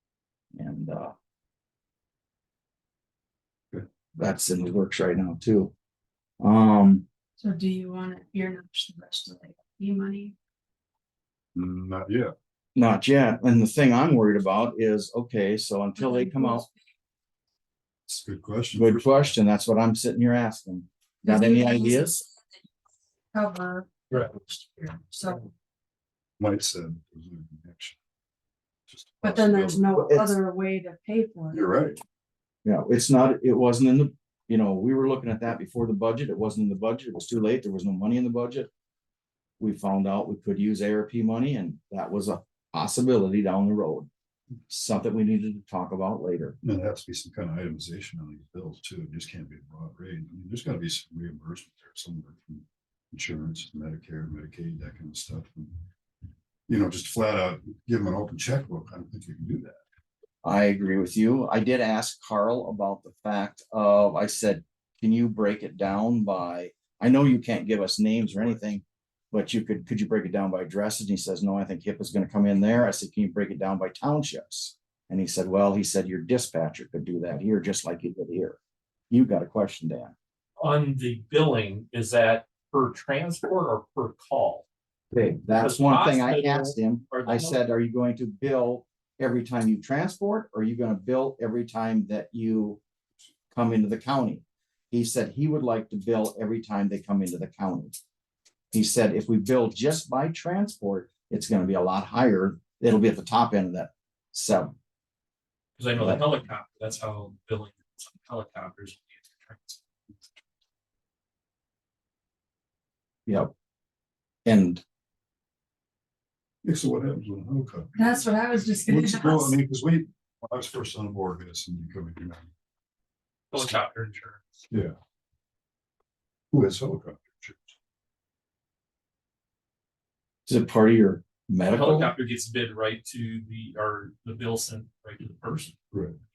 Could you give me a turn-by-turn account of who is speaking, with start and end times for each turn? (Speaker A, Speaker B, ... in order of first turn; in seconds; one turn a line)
Speaker A: 0.5-1.1
Speaker A: 4.2-5.7
Speaker A: 6.4-7.0
Speaker B: 7.4-10.3
Speaker C: 11.5-12.3
Speaker A: 12.8-16.7
Speaker B: 16.0-16.8
Speaker C: 18.1-19.4
Speaker A: 18.8-22.2
Speaker B: 21.2-22.2
Speaker B: 23.3-25.5
Speaker C: 26.4-28.0
Speaker C: 28.9-29.9
Speaker B: 29.2-31.6
Speaker A: 29.9-30.3
Speaker C: 31.5-32.0
Speaker A: 32.6-38.7
Speaker A: 39.6-44.1
Speaker A: 44.7-46.5
Speaker C: 46.6-55.8
Speaker C: 56.7-59.8
Speaker A: 60.4-78.6
Speaker A: 79.1-80.1
Speaker D: 80.6-84.6
Speaker A: 85.1-92.8
Speaker D: 85.5-87.6
Speaker A: 93.5-98.0
Speaker A: 98.7-104.7
Speaker D: 105.8-109.8
Speaker A: 106.0-106.2
Speaker A: 113.3-113.5
Speaker A: 114.5-114.8
Speaker C: 116.6-122.5
Speaker B: 118.0-119.5
Speaker D: 123.5-124.6
Speaker C: 124.7-124.9
Speaker C: 126.5-127.7
Speaker A: 130.5-132.1
Speaker D: 131.7-135.7
Speaker C: 135.9-136.2